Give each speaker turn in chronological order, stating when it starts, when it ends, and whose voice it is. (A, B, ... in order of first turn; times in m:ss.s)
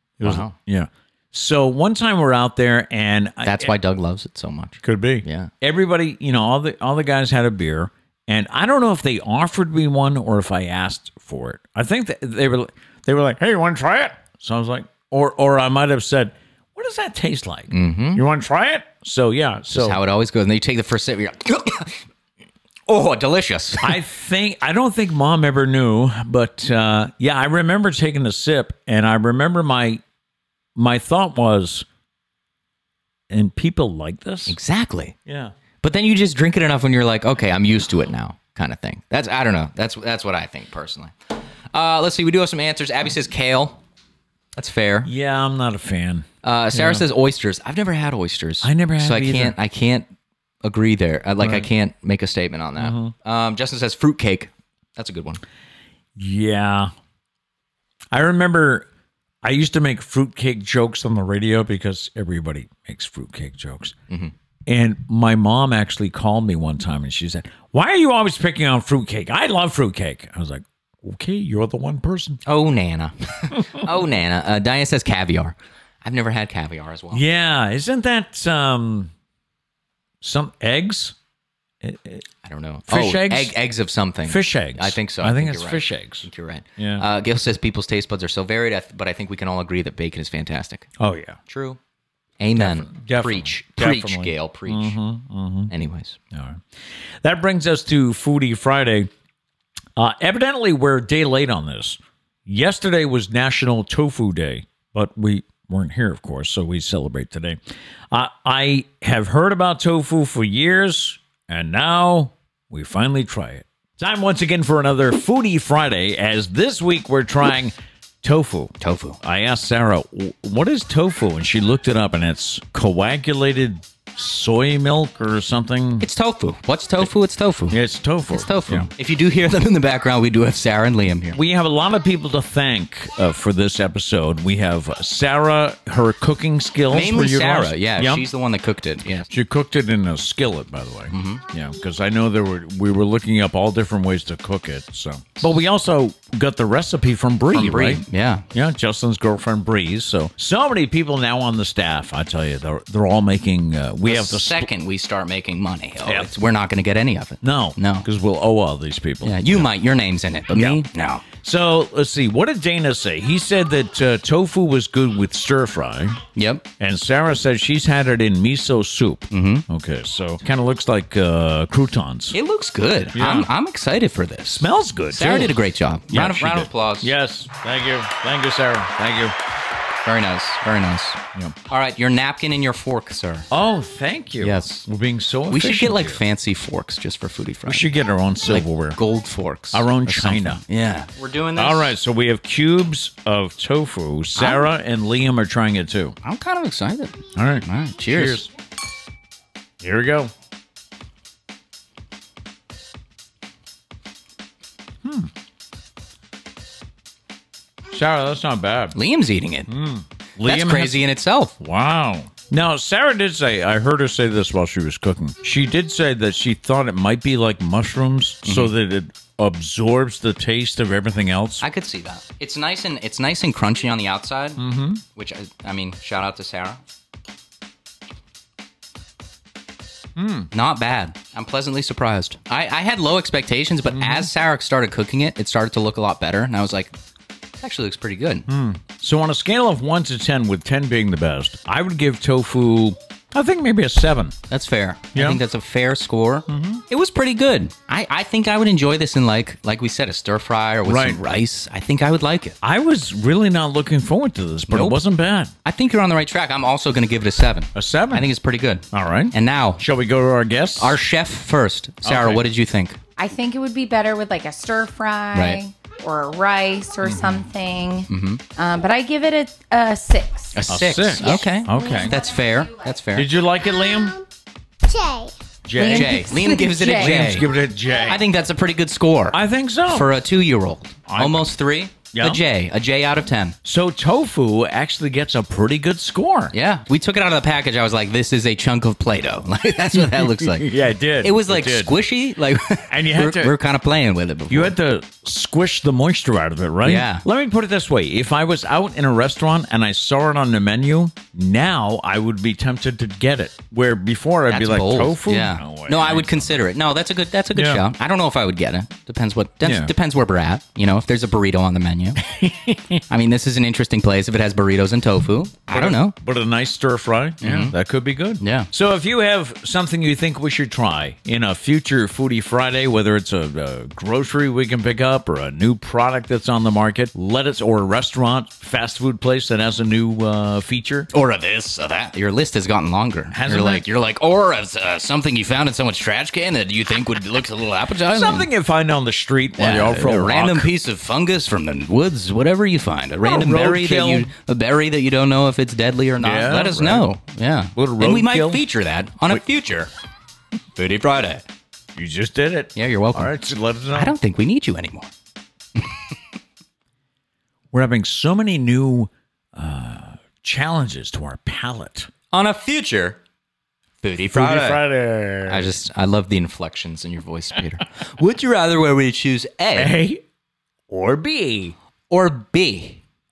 0:00.2-0:03.7 A
0:00.2-0:00.5 B
0:03.4-0:05.5 B
0:04.8-0:20.0 A
0:17.7-0:18.2 B
0:19.7-0:22.0 B
0:22.9-0:24.0 B
0:23.8-0:30.0 A
0:30.7-0:31.8 A
0:33.3-0:34.6 A
0:34.5-0:35.1 B
0:35.2-0:35.5 A
0:35.8-0:41.1 B
0:41.7-0:43.8 B
0:44.5-0:45.1 B
0:45.0-0:47.0 A
0:46.4-0:50.1 B
0:48.6-0:49.6 A
0:50.6-0:55.4 B
0:51.4-0:51.7 A
0:52.8-0:53.1 A
0:56.2-0:56.9 A
0:58.1-0:58.9 A
0:59.4-1:03.9 A
1:04.6-1:12.4 A
1:12.4-1:17.2 B
1:17.1-1:19.1 A
1:20.2-1:21.2 A
1:21.8-1:22.2 A
1:22.4-1:30.9 B
1:22.9-1:23.5 A
1:24.3-1:27.0 A
1:31.0-1:31.4 A
1:31.5-1:31.8 B
1:32.4-1:35.0 B
1:32.6-1:35.7 A
1:35.7-1:36.2 B
1:36.3-1:36.6 A
1:37.2-1:39.1 A
1:40.0-1:47.6 A
1:48.1-2:06.1 A
1:58.8-1:59.2 B
2:06.0-2:07.8 B
2:07.7-2:08.9 A
2:08.3-2:11.4 B
2:11.3-2:18.3 A
2:16.9-2:19.3 B
2:19.3-2:34.7 A
2:21.1-2:21.4 B
2:27.5-2:28.4 B
2:34.0-2:38.1 B
2:36.0-2:36.3 A
2:37.4-2:39.7 A
2:39.2-2:41.2 B
2:40.5-2:46.2 A
2:46.3-2:46.6 B
2:46.8-2:52.4 A
2:49.3-2:49.6 B
2:52.3-2:57.1 B
2:53.1-2:53.5 A
2:54.5-2:55.6 A
2:56.1-2:59.3 A
3:00.0-3:03.5 B
3:03.5-3:06.2 A
3:04.4-3:04.9 B
3:05.5-3:07.9 B
3:07.6-3:09.0 A
3:08.4-3:11.9 B
3:09.7-3:10.6 A
3:11.6-3:16.2 A
3:14.4-3:14.7 B
3:16.2-3:18.5 B
3:17.3-3:18.5 A
3:19.8-3:20.3 A
3:25.0-3:25.3 A
3:27.9-3:28.9 A
3:28.9-3:29.7 B
3:29.7-3:31.0 A
3:30.4-3:31.6 B
3:31.6-3:41.6 A
3:38.4-3:38.7 B
3:41.6-3:44.6 B
3:44.6-3:45.0 A
3:45.1-3:46.8 B
3:50.2-3:50.5 A
3:50.5-3:56.9 B
3:53.9-3:54.3 A
3:57.6-3:58.5 B
3:58.5-4:04.4 A
4:04.5-4:12.6 B
4:05.1-4:05.4 A
4:06.5-4:06.8 A
4:10.8-4:11.2 A
4:12.6-4:15.5 A
4:14.7-4:15.0 B
4:15.6-4:19.8 B
4:17.7-4:18.3 A
4:18.9-4:21.0 A
4:20.8-4:23.0 B
4:22.0-4:22.4 A
4:23.2-4:30.6 C
4:25.3-4:25.6 B
4:27.0-4:27.4 A
4:28.1-4:28.4 B
4:30.5-4:33.3 B
4:30.7-4:32.1 A
4:31.2-4:32.7 C
4:33.1-4:34.2 A
4:34.9-4:37.4 C
4:35.6-4:38.2 A
4:35.8-4:43.6 B
4:39.3-4:40.1 A
4:41.1-4:41.5 A
4:42.1-4:42.4 A
4:43.6-4:46.5 A
4:46.5-4:54.7 B
4:49.9-4:52.0 A
4:52.9-4:53.5 A
4:54.5-5:06.6 A
4:56.8-4:57.2 B
5:04.5-5:12.2 B
5:07.5-5:07.8 A
5:09.6-5:09.9 A
5:12.2-5:13.0 A
5:13.1-5:16.1 B
5:15.7-5:31.1 A
5:17.4-5:17.7 B
5:18.4-5:18.7 B
5:31.1-5:38.5 B
5:33.3-5:33.8 A
5:38.1-5:40.7 A
5:39.6-5:49.9 B
5:43.2-5:44.3 A
5:46.2-5:47.2 A
5:47.7-5:48.6 A
5:50.7-5:51.4 B
5:51.9-5:54.1 A
5:52.7-5:53.3 B
5:53.9-5:55.1 B
5:55.8-5:56.0 B
5:57.7-6:02.1 A
6:02.3-6:03.2 B
6:04.0-6:04.8 B
6:04.3-6:05.7 A
6:05.5-6:10.0 B
6:09.8-6:10.2 A
6:10.9-6:11.7 A
6:12.1-6:13.0 B